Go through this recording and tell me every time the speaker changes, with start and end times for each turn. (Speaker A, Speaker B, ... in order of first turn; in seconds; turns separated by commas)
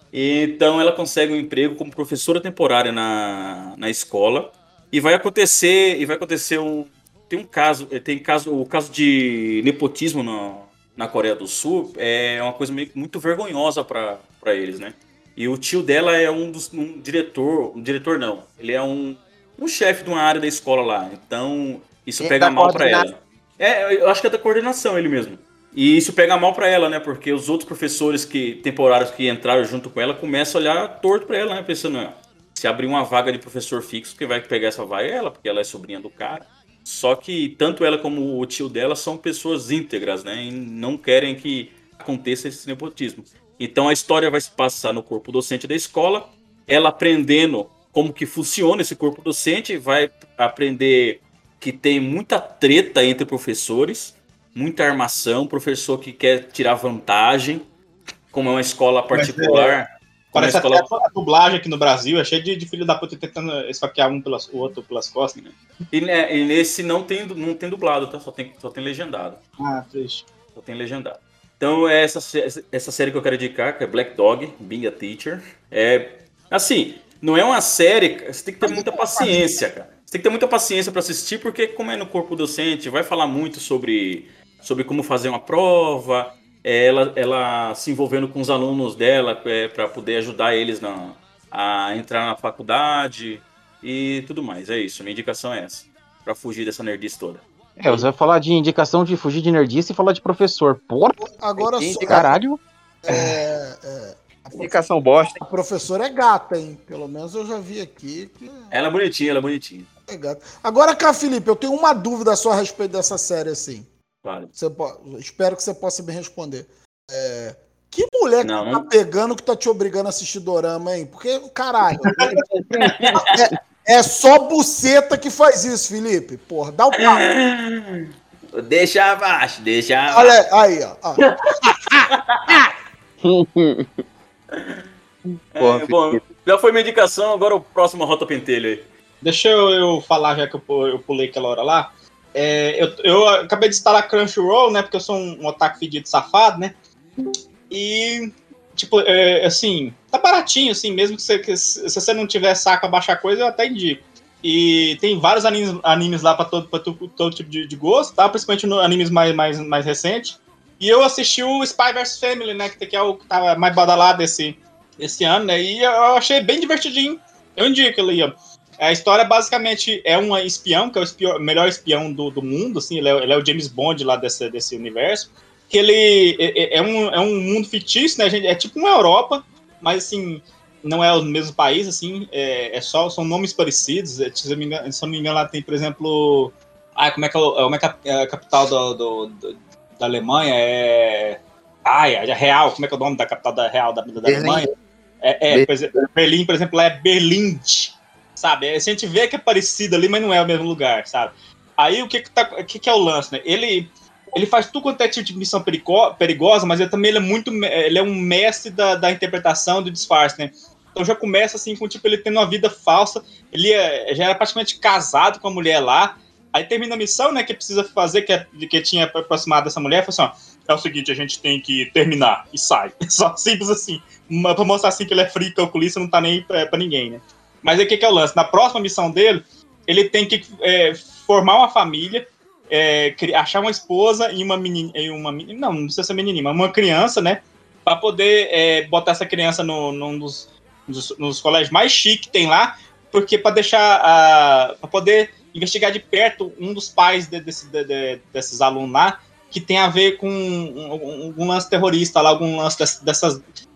Speaker A: 0.1-57.6, Speaker B: 22.2-23.1, Speaker A: 58.3-60.9, Speaker C: 59.1-59.8, Speaker C: 60.3-65.5, Speaker A: 65.5-69.4, Speaker C: 69.6-70.3, Speaker A: 70.5-97.4, Speaker D: 78.7-79.3, Speaker E: 97.8-101.2, Speaker D: 101.2-102.3, Speaker B: 101.6-102.3, Speaker E: 102.1-102.6, Speaker D: 103.0-104.8, Speaker B: 104.6-105.4, Speaker D: 105.3-108.7, Speaker A: 108.7-109.9, Speaker D: 110.1-113.9, Speaker A: 114.2-114.5, Speaker D: 114.5-127.2, Speaker A: 118.4-118.9, Speaker A: 122.8-123.2, Speaker A: 127.0-130.4, Speaker D: 130.1-132.6, Speaker A: 132.3-132.6, Speaker A: 134.6-134.8, Speaker A: 135.6-138.9, Speaker B: 135.6-136.2, Speaker C: 139.2-146.7, Speaker C: 147.7-194.7, Speaker B: 194.2-194.7, Speaker C: 195.2-253.4